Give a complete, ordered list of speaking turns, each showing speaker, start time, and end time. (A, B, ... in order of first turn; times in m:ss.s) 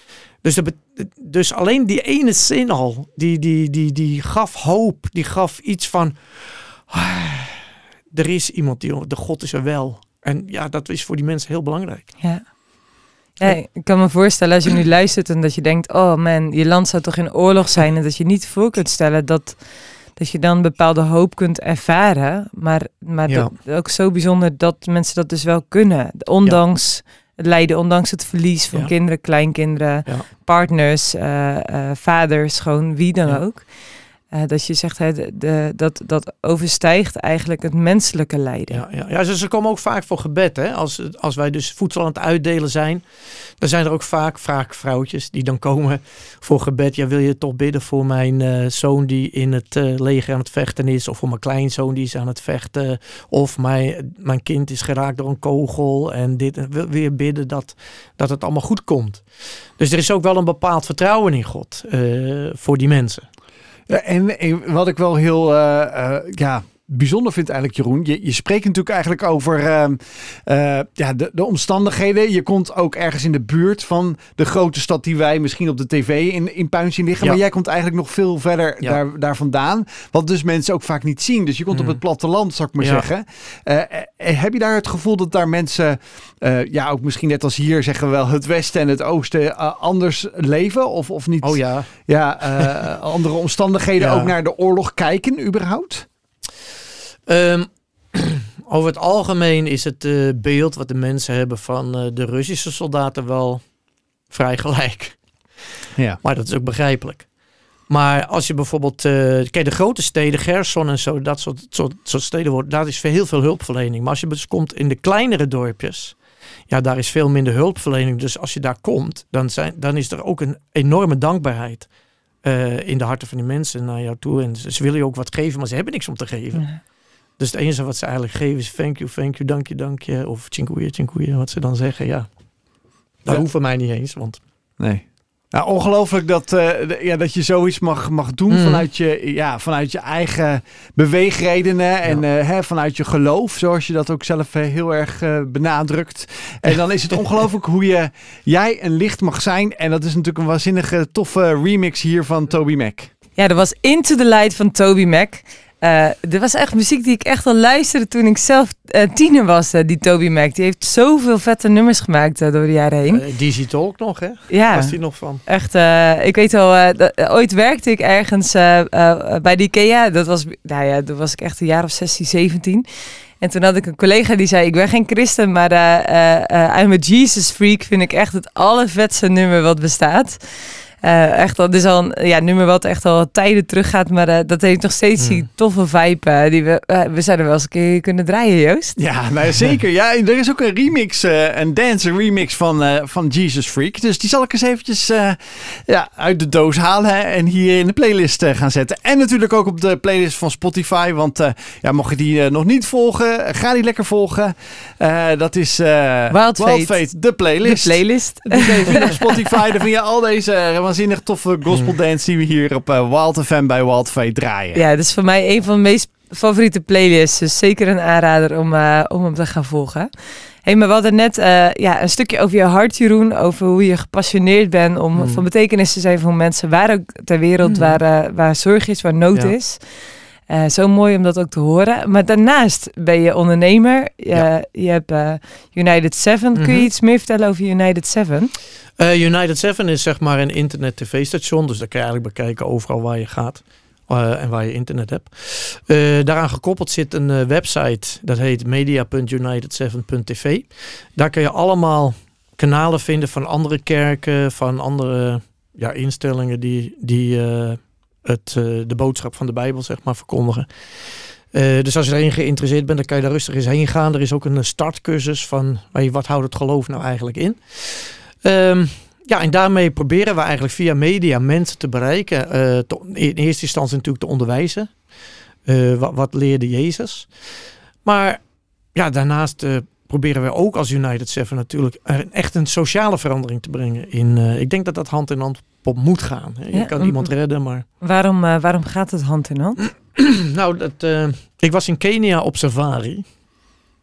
0:00.4-0:12.1 A
0:12.2-0:12.5 B
0:13.4-0:19.6 B
0:20.1-0:33.7 B
0:34.3-0:38.8 B
0:38.7-0:43.1 A
0:43.6-0:59.2 A
0:59.8-1:03.3 A
1:03.9-1:36.1 C
1:21.7-1:22.0 A
1:22.8-1:23.0 A
1:31.4-1:31.9 A
1:34.0-1:34.3 A
1:37.3-1:43.6 A
1:44.3-1:45.2 A
1:46.2-1:47.3 A
1:47.9-1:56.2 A
1:56.7-2:01.9 A
2:02.4-2:06.7 A
2:07.4-2:12.3 A
2:13.2-2:14.4 A
2:14.8-2:33.1 C
2:18.5-2:18.8 A
2:33.4-2:43.2 B
2:43.1-2:45.4 A
2:44.5-2:52.8 B
2:53.4-3:09.0 B
3:05.2-3:05.4 A
3:09.0-3:34.8 C
3:26.3-3:29.6 B
3:34.7-3:40.1 B
3:40.6-3:58.5 B
3:45.2-3:45.4 A
3:47.6-3:48.0 A
3:56.6-3:56.9 A
3:59.0-4:20.7 A
4:21.5-4:34.9 A
4:35.7-4:37.3 A
4:38.0-4:38.4 A
4:39.0-4:47.8 A
4:46.7-4:47.3 B
4:48.0-4:49.8 B
4:49.8-4:53.2 A